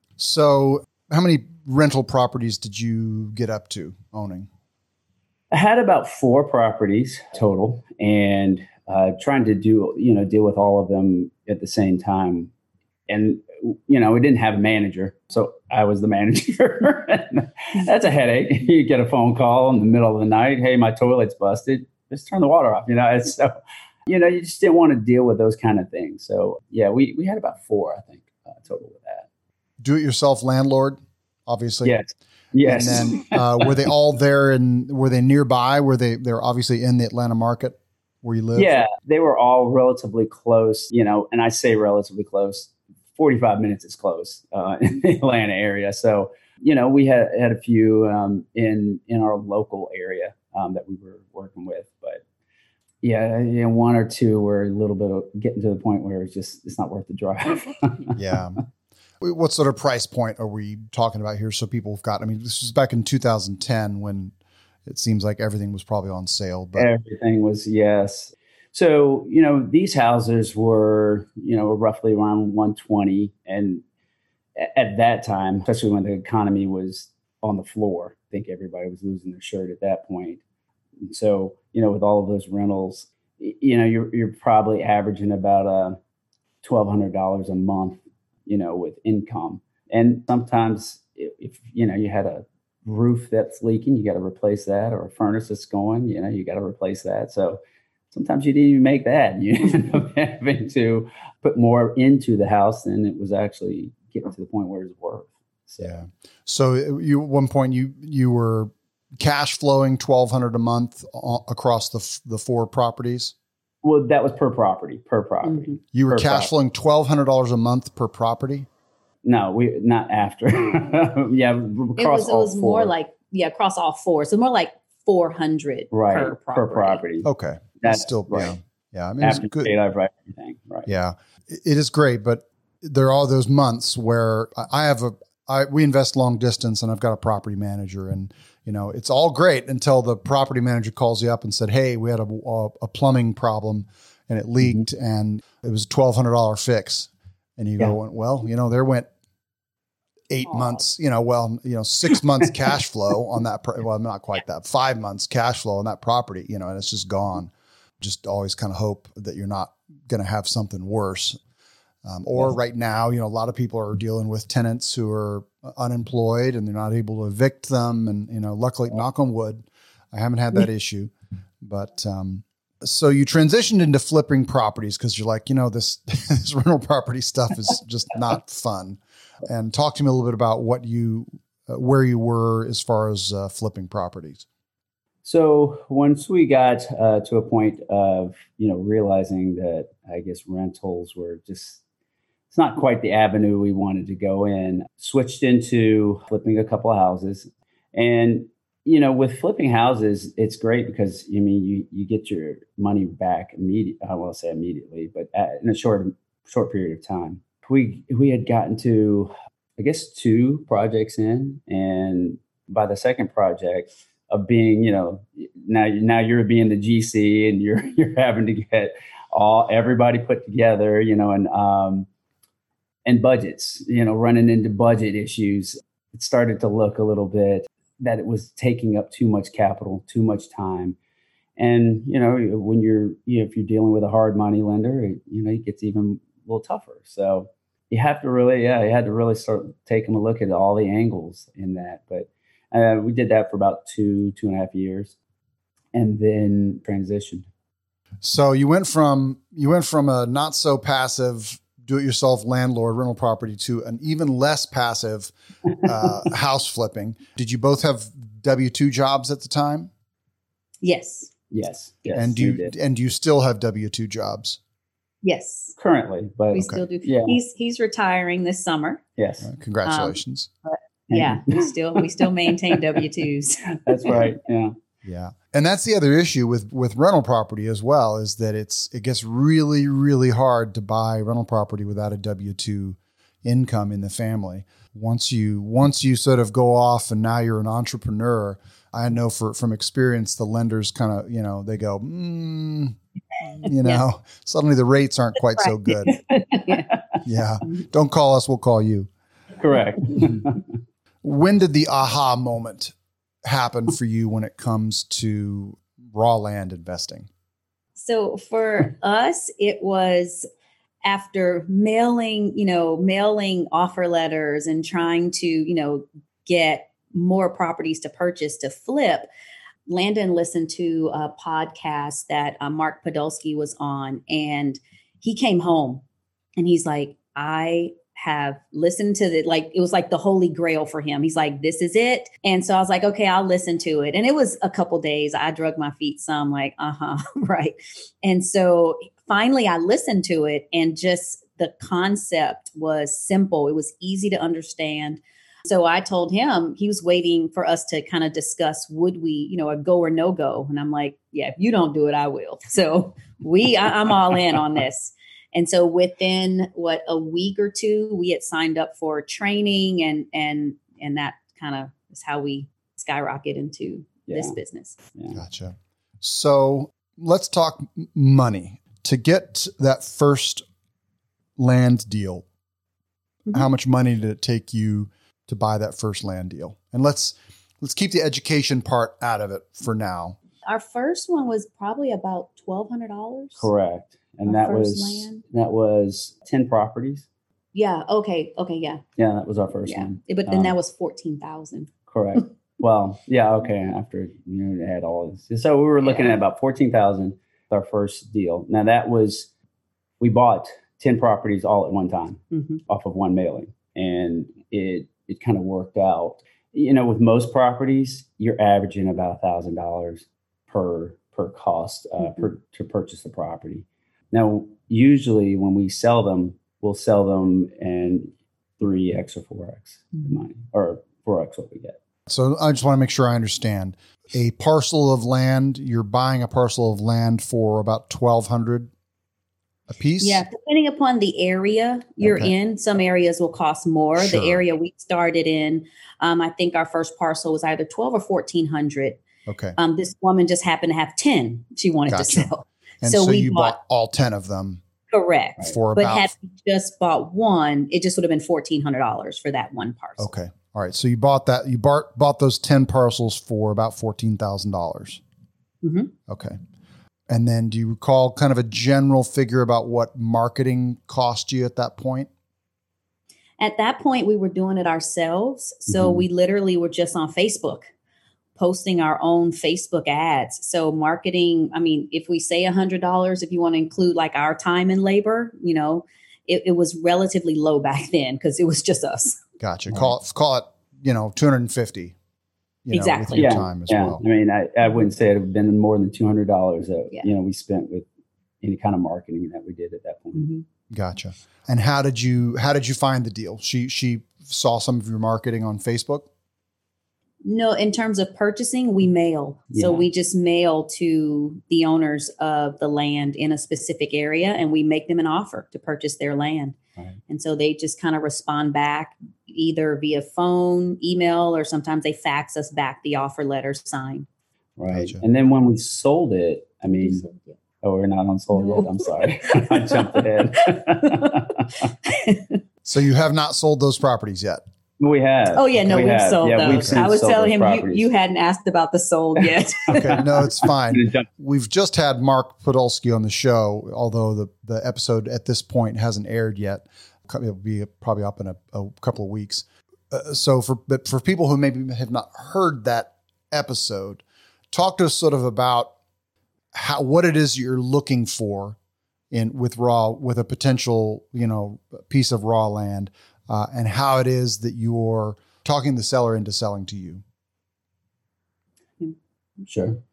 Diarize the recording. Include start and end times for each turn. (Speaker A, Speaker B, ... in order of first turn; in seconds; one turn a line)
Speaker A: 0.2-4.5
Speaker B: 5.5-12.5
Speaker B: 13.1-23.6
Speaker B: 24.1-29.3
Speaker A: 29.8-32.0
Speaker B: 31.8-33.9
Speaker A: 32.6-38.9
Speaker B: 38.6-52.2
Speaker B: 53.0-58.2
Speaker A: 58.1-58.6
Speaker A: 59.2-64.3
Speaker A: 64.9-66.9
Speaker B: 66.8-73.8
Speaker B: 74.6-80.4
Speaker B: 81.0-86.0
Speaker B: 86.6-97.6
Speaker B: 98.1-106.0
Speaker A: 105.8-113.3
Speaker B: 113.8-116.5
Speaker C: 115.4-115.8
Speaker A: 115.9-118.7
Speaker B: 119.2-122.9
Speaker C: 122.0-127.0
Speaker B: 125.9-127.3
Speaker A: 127.2-129.7
Speaker B: 127.8-128.6
Speaker B: 129.2-130.9
Speaker A: 130.9-149.1
Speaker A: 150.3-161.4
Speaker A: 162.0-184.5
Speaker B: 185.2-191.8
Speaker B: 192.5-222.1
Speaker B: 223.1-231.0
Speaker B: 231.6-245.2
Speaker B: 245.9-247.5
Speaker A: 248.2-259.9
Speaker C: 260.8-261.3
Speaker B: 261.5-262.7
Speaker A: 262.1-264.6
Speaker C: 265.2-265.7
Speaker B: 265.8-267.4
Speaker C: 266.5-269.0
Speaker A: 266.6-266.8
Speaker B: 269.2-269.5
Speaker A: 269.4-270.5
Speaker C: 269.9-274.2
Speaker B: 271.1-273.0
Speaker B: 273.9-274.8
Speaker A: 275.0-296.2
Speaker C: 296.1-296.9
Speaker A: 297.2-299.1
Speaker B: 299.6-300.6
Speaker A: 301.2-307.3
Speaker C: 308.0-310.5
Speaker C: 311.0-319.3
Speaker C: 319.9-326.0
Speaker C: 326.6-365.0
Speaker B: 364.3-364.6
Speaker B: 365.2-365.4
Speaker A: 365.3-370.6
Speaker A: 371.6-372.4
Speaker A: 373.5-380.4
Speaker C: 380.7-383.7
Speaker B: 383.6-387.3
Speaker C: 384.5-385.4
Speaker C: 387.7-389.0
Speaker B: 389.2-390.7
Speaker C: 389.9-391.9
Speaker B: 392.1-399.5
Speaker C: 396.0-396.3
Speaker B: 400.2-422.0
Speaker C: 402.5-402.8
Speaker A: 422.3-428.9
Speaker A: 429.9-430.4
Speaker C: 430.2-439.2
Speaker A: 432.2-432.5
Speaker A: 434.2-434.6
Speaker A: 439.5-439.8
Speaker C: 439.8-443.8
Speaker A: 442.1-442.5
Speaker A: 443.0-444.8
Speaker C: 445.1-450.3
Speaker A: 445.6-446.3
Speaker A: 450.2-455.2
Speaker C: 455.8-456.1
Speaker A: 456.3-456.6
Speaker A: 457.3-462.3
Speaker C: 463.6-467.9
Speaker B: 465.9-466.2
Speaker C: 468.6-479.4
Speaker A: 479.6-482.1
Speaker A: 482.9-484.2
Speaker C: 482.9-483.5
Speaker B: 483.4-488.1
Speaker B: 488.6-490.5
Speaker C: 490.4-490.6
Speaker A: 490.9-496.3
Speaker C: 497.4-506.8
Speaker B: 499.7-500.1
Speaker C: 507.3-514.3
Speaker B: 514.8-517.2
Speaker A: 514.9-515.2
Speaker C: 516.9-517.6
Speaker B: 517.8-521.7
Speaker C: 518.5-521.5
Speaker C: 522.0-522.6
Speaker A: 522.9-524.6
Speaker B: 525.0-528.1
Speaker C: 525.5-530.3
Speaker A: 526.7-527.0
Speaker B: 529.9-531.3
Speaker A: 529.9-545.9
Speaker A: 546.7-548.8
Speaker A: 549.3-557.2
Speaker B: 559.7-560.0